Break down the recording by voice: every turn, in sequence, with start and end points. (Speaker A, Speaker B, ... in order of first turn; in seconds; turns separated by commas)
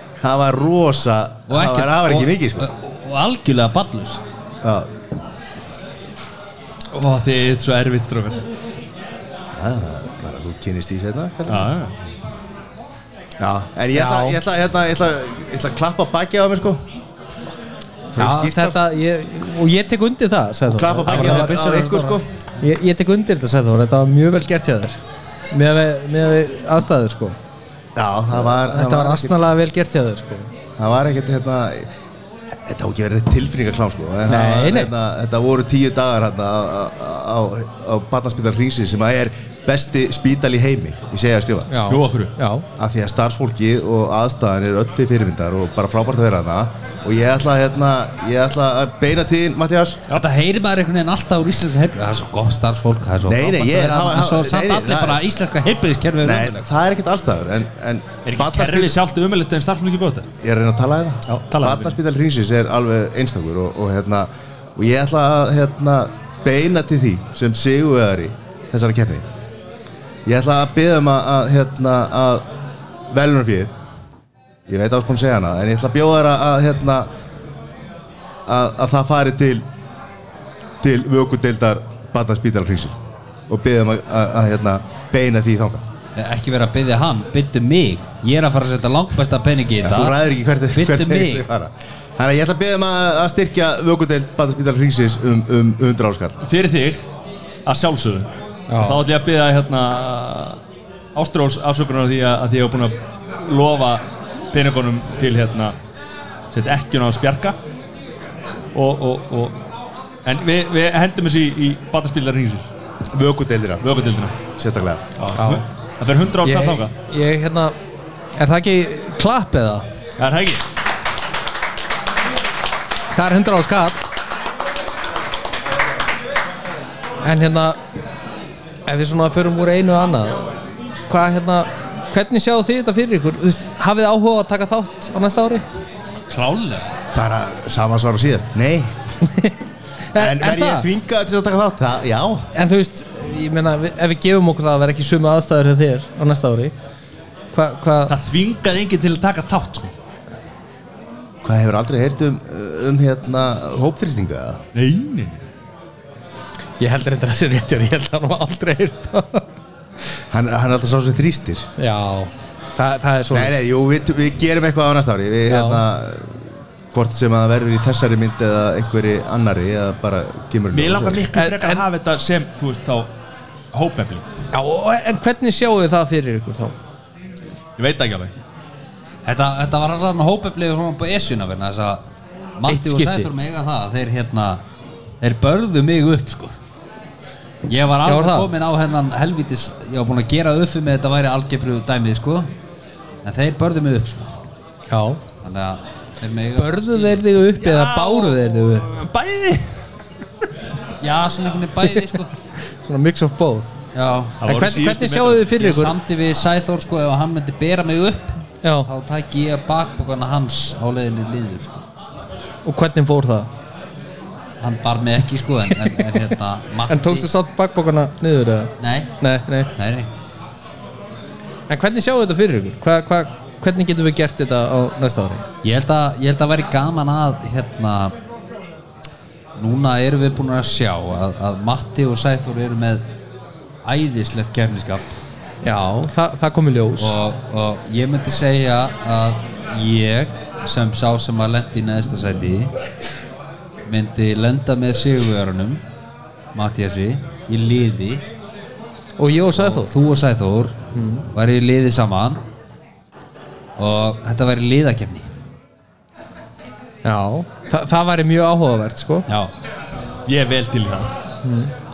Speaker A: 0.2-2.7, Speaker B: 1.5-4.2, Speaker A: 4.6-4.9, Speaker C: 6.9-8.4, Speaker A: 9.5-11.7, Speaker C: 11.5-11.9, Speaker A: 13.4-16.8, Speaker D: 13.9-14.4, Speaker A: 18.1-18.8, Speaker D: 18.2-25.0, Speaker A: 20.7-22.2, Speaker D: 25.5-27.4, Speaker A: 28.0-29.3, Speaker D: 28.4-30.5, Speaker A: 30.8-31.9, Speaker A: 32.6-41.7, Speaker D: 34.3-34.9, Speaker D: 41.7-42.6, Speaker C: 41.9-42.3, Speaker A: 42.8-50.0, Speaker B: 50.1-56.7, Speaker A: 53.2-55.2, Speaker A: 56.2-58.9, Speaker C: 58.2-60.3, Speaker A: 60.4-69.2, Speaker C: 61.3-62.0, Speaker A: 70.3-72.4, Speaker A: 73.1-73.7, Speaker A: 74.7-77.1, Speaker A: 78.5-79.7, Speaker A: 80.8-83.0, Speaker A: 83.5-85.8, Speaker B: 86.2-90.2, Speaker A: 89.8-96.4, Speaker B: 90.7-91.5, Speaker C: 96.4-97.0, Speaker C: 97.7-100.6, Speaker D: 98.7-99.0, Speaker C: 101.2-105.7, Speaker C: 106.5-107.6, Speaker C: 108.7-109.6, Speaker C: 110.2-112.7, Speaker A: 113.1-113.8, Speaker C: 113.8-114.4, Speaker A: 114.6-115.0, Speaker C: 115.2-116.9, Speaker D: 115.3-115.7, Speaker D: 116.4-117.8, Speaker D: 118.4-119.8, Speaker C: 120.2-120.6, Speaker D: 123.1-124.0, Speaker D: 127.2-127.8, Speaker D: 128.9-130.5, Speaker D: 131.1-135.6, Speaker B: 136.3-136.9, Speaker A: 137.1-138.9, Speaker D: 139.2-139.6, Speaker D: 140.1-140.9, Speaker A: 140.2-142.5, Speaker D: 142.5-146.7, Speaker D: 147.5-148.1, Speaker C: 148.1-149.9, Speaker A: 151.4-154.6, Speaker C: 154.7-155.4, Speaker D: 156.8-159.4, Speaker A: 160.3-161.7, Speaker D: 161.8-163.6, Speaker A: 163.3-171.3, Speaker D: 165.5-165.8, Speaker C: 170.7-173.1, Speaker D: 171.3-171.8, Speaker C: 173.7-174.3, Speaker D: 174.5-176.8, Speaker C: 177.8-178.3, Speaker B: 179.3-182.0, Speaker B: 182.6-184.6, Speaker D: 182.7-183.3, Speaker B: 185.2-186.5, Speaker B: 187.7-192.5, Speaker D: 188.1-188.5, Speaker B: 193.2-194.3, Speaker D: 194.9-195.2, Speaker B: 195.4-197.3, Speaker D: 196.6-198.9, Speaker C: 197.6-199.8, Speaker B: 201.0-202.3, Speaker D: 202.8-203.7, Speaker B: 203.9-204.4, Speaker C: 204.4-205.5, Speaker D: 204.4-206.0, Speaker B: 205.5-211.8, Speaker D: 208.6-208.9, Speaker D: 212.7-213.5, Speaker B: 214.6-217.3, Speaker D: 215.7-216.0, Speaker D: 216.9-219.7, Speaker B: 218.8-219.1, Speaker B: 219.8-220.1, Speaker D: 221.7-225.4, Speaker B: 225.6-228.1, Speaker B: 229.6-233.0, Speaker B: 233.8-235.1, Speaker D: 235.6-237.2, Speaker B: 237.0-242.7, Speaker B: 243.9-245.8, Speaker B: 246.5-248.2, Speaker D: 249.2-249.9, Speaker B: 249.6-250.8, Speaker D: 250.9-251.3, Speaker B: 251.3-252.4, Speaker B: 253.8-255.3, Speaker D: 257.0-259.3, Speaker C: 260.3-261.1, Speaker D: 261.4-261.7